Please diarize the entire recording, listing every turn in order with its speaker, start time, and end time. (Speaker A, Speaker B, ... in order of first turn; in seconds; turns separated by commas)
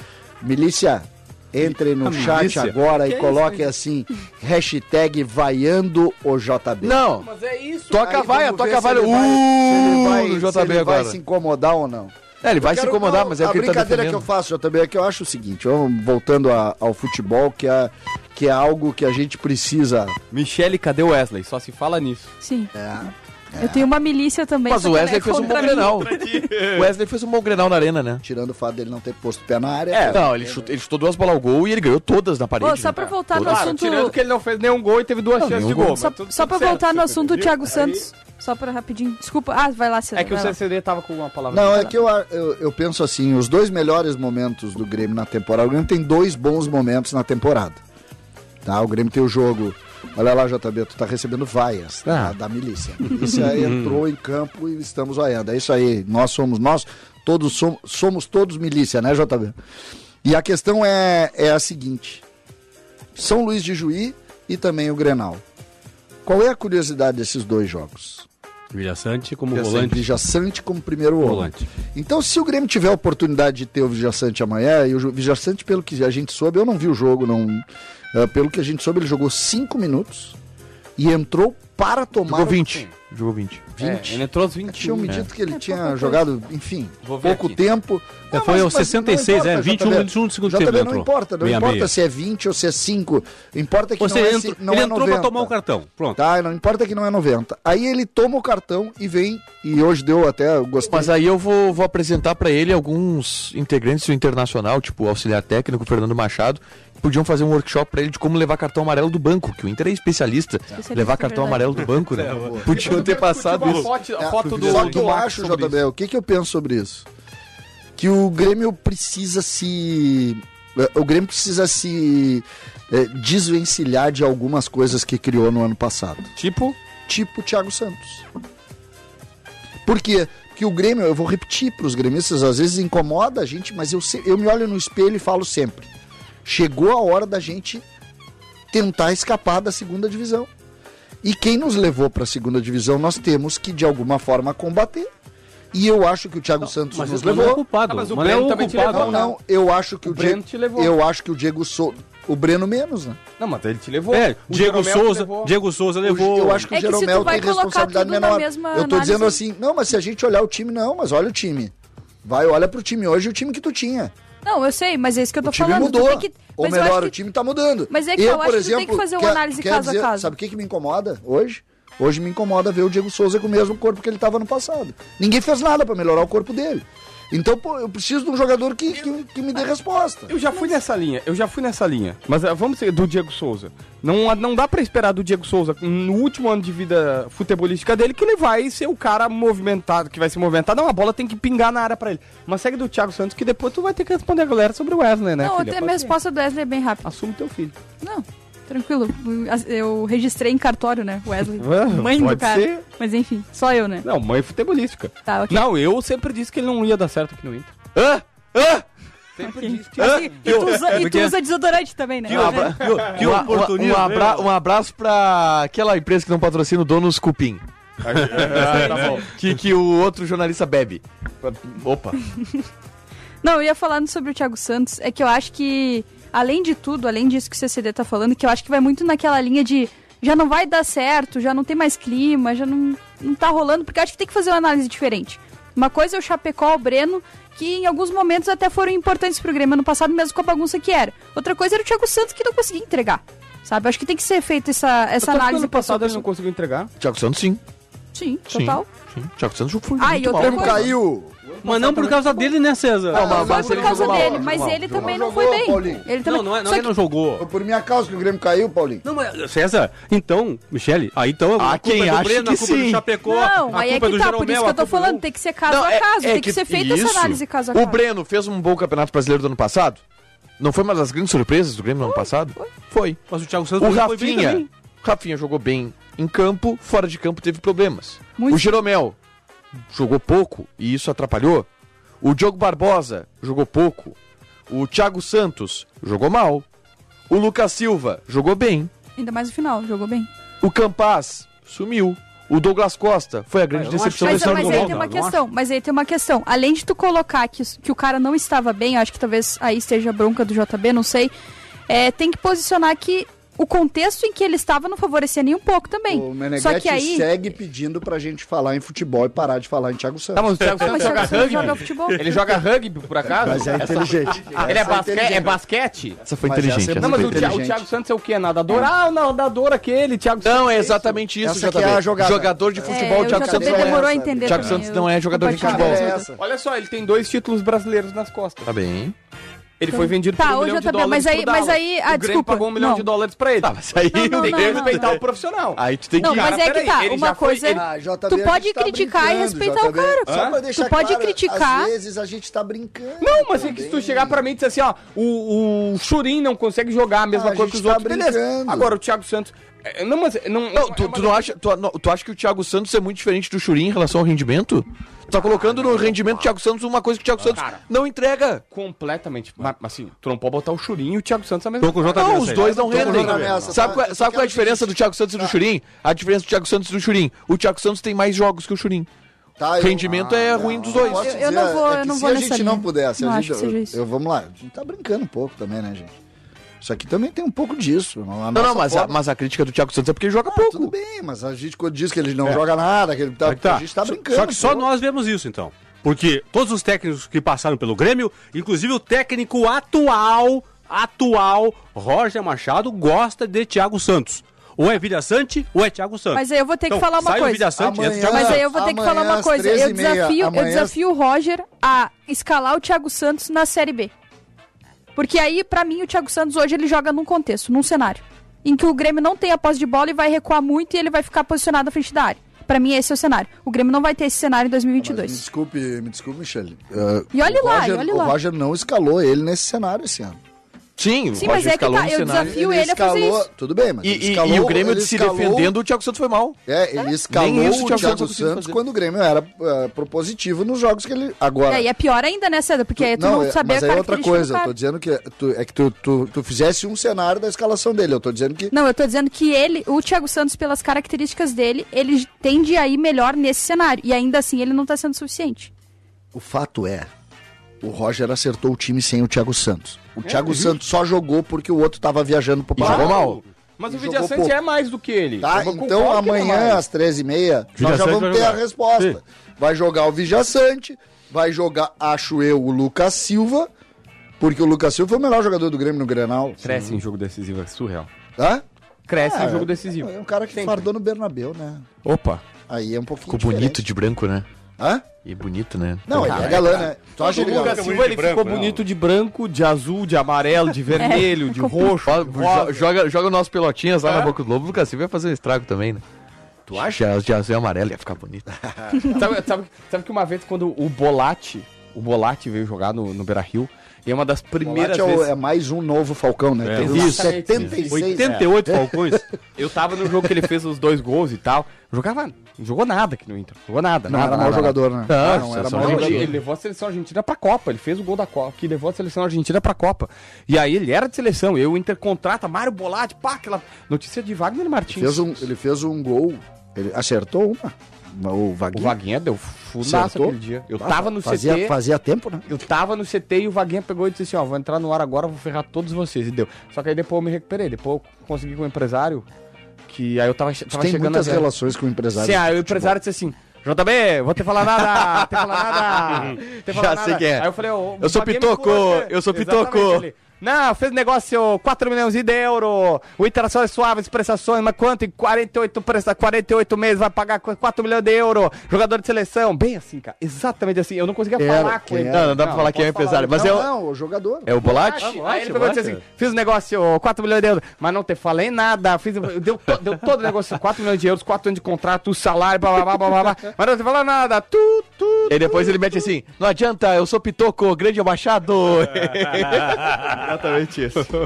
Speaker A: 0.4-7.0, Speaker B: 2.0-2.7, Speaker C: 2.2-3.7, Speaker D: 6.8-7.3, Speaker C: 7.2-8.8, Speaker D: 7.9-11.2, Speaker A: 7.9-20.2, Speaker D: 12.4-14.2, Speaker C: 20.3-22.3, Speaker E: 22.4-22.7, Speaker A: 22.7-23.9, Speaker E: 23.6-26.1, Speaker D: 24.7-28.2, Speaker C: 25.4-26.9, Speaker A: 28.2-30.7, Speaker C: 29.9-30.2, Speaker D: 30.1-33.8, Speaker E: 32.6-34.2, Speaker C: 33.1-38.1, Speaker D: 35.4-36.0, Speaker E: 35.8-40.6, Speaker C: 40.1-42.0, Speaker A: 41.5-47.8, Speaker A: 48.6-59.5, Speaker B: 53.6-54.0, Speaker A: 60.2-62.2, Speaker A: 63.1-65.4, Speaker A: 66.2-68.3, Speaker B: 68.7-70.0, Speaker A: 69.6-80.4, Speaker B: 71.2-71.7, Speaker A: 81.0-82.8, Speaker D: 82.3-83.7, Speaker A: 83.8-95.5, Speaker C: 83.8-85.2, Speaker E: 85.5-86.2, Speaker C: 87.0-87.6, Speaker B: 88.3-91.9, Speaker B: 94.0-96.2, Speaker A: 96.2-101.1, Speaker D: 100.9-113.9, Speaker E: 110.7-111.9, Speaker B: 112.2-112.8, Speaker A: 112.2-112.7, Speaker C: 112.7-115.8, Speaker A: 114.2-117.1, Speaker A: 118.0-126.3, Speaker C: 126.4-126.8, Speaker A: 127.1-128.2, Speaker A: 129.8-135.9, Speaker A: 136.4-137.8, Speaker A: 138.7-140.5, Speaker A: 141.2-145.1, Speaker A: 145.7-147.6, Speaker B: 146.9-149.2, Speaker C: 147.9-149.4, Speaker A: 148.8-153.2, Speaker C: 150.1-150.9, Speaker C: 153.4-155.5, Speaker B: 154.1-156.7, Speaker A: 156.0-161.7, Speaker E: 156.7-159.4, Speaker A: 162.2-164.1, Speaker E: 164.4-167.2, Speaker A: 165.4-180.3, Speaker E: 167.9-170.3, Speaker C: 180.3-196.2, Speaker E: 195.4-197.1, Speaker C: 197.1-197.8, Speaker E: 198.0-204.1, Speaker C: 201.6-202.8, Speaker C: 204.0-207.7, Speaker E: 205.3-205.6, Speaker D: 207.9-208.8, Speaker C: 209.4-210.8, Speaker E: 209.4-212.7, Speaker D: 210.0-210.9, Speaker B: 210.9-211.3, Speaker D: 212.3-217.6, Speaker B: 212.3-214.5, Speaker C: 212.4-213.4, Speaker C: 218.0-219.3, Speaker D: 218.4-221.0, Speaker B: 218.4-218.9, Speaker D: 221.6-222.2, Speaker E: 223.4-246.2, Speaker C: 245.2-246.9, Speaker D: 247.0-247.6, Speaker E: 248.1-248.9, Speaker D: 248.5-250.9, Speaker E: 250.0-250.9, Speaker A: 250.4-251.4, Speaker B: 251.6-253.3, Speaker C: 251.7-252.1, Speaker A: 253.1-256.0, Speaker D: 253.1-255.1, Speaker E: 253.2-256.9, Speaker B: 256.2-257.5, Speaker A: 257.4-259.0, Speaker B: 259.0-265.2, Speaker D: 261.6-263.1, Speaker E: 263.2-268.0, Speaker D: 265.7-270.0, Speaker D: 270.6-273.2, Speaker E: 272.0-272.7, Speaker B: 273.3-274.7, Speaker D: 273.8-279.2, Speaker E: 278.4-278.8, Speaker D: 279.9-281.7, Speaker D: 282.2-284.2, Speaker D: 284.7-286.7, Speaker D: 287.3-288.9, Speaker E: 289.2-290.3, Speaker D: 290.6-295.0, Speaker B: 293.7-295.4, Speaker E: 294.2-301.3, Speaker E: 301.9-307.3, Speaker A: 306.1-311.4, Speaker C: 310.4-316.2, Speaker E: 310.8-312.2, Speaker A: 313.3-315.6, Speaker D: 316.2-317.6, Speaker A: 316.4-317.9, Speaker C: 317.0-321.2, Speaker D: 320.4-326.0, Speaker A: 321.4-324.8, Speaker E: 322.9-326.3, Speaker A: 325.4-326.4, Speaker C: 326.4-328.7, Speaker D: 328.6-329.1, Speaker C: 329.8-333.8, Speaker E: 329.9-333.1, Speaker D: 333.6-335.2, Speaker E: 334.1-335.1, Speaker C: 334.4-337.8, Speaker D: 335.8-336.6, Speaker E: 336.2-341.9, Speaker A: 337.7-344.4, Speaker C: 340.3-340.6, Speaker C: 343.2-351.5, Speaker A: 347.3-348.9, Speaker D: 350.7-358.6, Speaker C: 357.5-357.8, Speaker C: 358.7-363.9, Speaker B: 361.8-363.7, Speaker D: 362.2-369.1, Speaker A: 362.6-365.6, Speaker A: 369.6-376.1, Speaker D: 369.8-371.3, Speaker C: 370.1-370.9, Speaker E: 371.1-374.0, Speaker A: 376.8-379.2, Speaker D: 378.5-380.9, Speaker A: 380.5-384.9, Speaker B: 383.4-398.6, Speaker E: 396.3-397.7, Speaker A: 397.8-401.0, Speaker E: 398.3-404.1, Speaker E: 405.2-415.4, Speaker A: 415.0-420.4, Speaker E: 417.3-418.4, Speaker D: 421.0-422.5, Speaker E: 421.4-423.5, Speaker A: 422.3-425.7, Speaker D: 424.0-426.6, Speaker A: 426.7-431.9, Speaker D: 427.3-428.8, Speaker E: 431.7-434.7, Speaker A: 433.0-438.7, Speaker E: 438.7-445.7, Speaker A: 446.3-447.1, Speaker A: 447.8-453.2, Speaker C: 450.2-450.7, Speaker D: 452.8-453.4, Speaker C: 452.8-456.8, Speaker A: 453.9-454.6, Speaker A: 455.4-463.7, Speaker B: 457.8-459.2, Speaker A: 464.4-466.8, Speaker C: 466.6-468.1, Speaker A: 468.4-471.9, Speaker C: 469.1-470.8, Speaker C: 472.0-472.4, Speaker A: 472.7-473.8, Speaker D: 473.3-474.5, Speaker A: 474.8-475.1, Speaker D: 475.2-476.6, Speaker A: 476.1-477.9, Speaker C: 476.2-482.9, Speaker B: 476.3-478.8, Speaker E: 481.0-481.9, Speaker D: 482.1-486.0, Speaker C: 486.7-487.0, Speaker D: 486.7-488.5, Speaker A: 488.8-489.2, Speaker C: 489.1-495.3, Speaker A: 494.6-499.2, Speaker B: 496.6-499.2, Speaker C: 496.8-498.5, Speaker D: 496.8-497.7, Speaker C: 499.6-515.3, Speaker A: 504.1-506.3, Speaker D: 505.1-506.4, Speaker A: 514.9-519.0, Speaker C: 518.7-521.8, Speaker A: 519.8-522.5, Speaker C: 522.5-529.3, Speaker C: 529.9-531.5, Speaker A: 530.7-533.0, Speaker C: 532.2-553.6, Speaker D: 534.8-540.1, Speaker A: 551.4-552.4, Speaker D: 552.1-553.7, Speaker A: 553.3-554.6, Speaker D: 554.5-556.0, Speaker C: 554.6-565.9, Speaker D: 565.3-571.1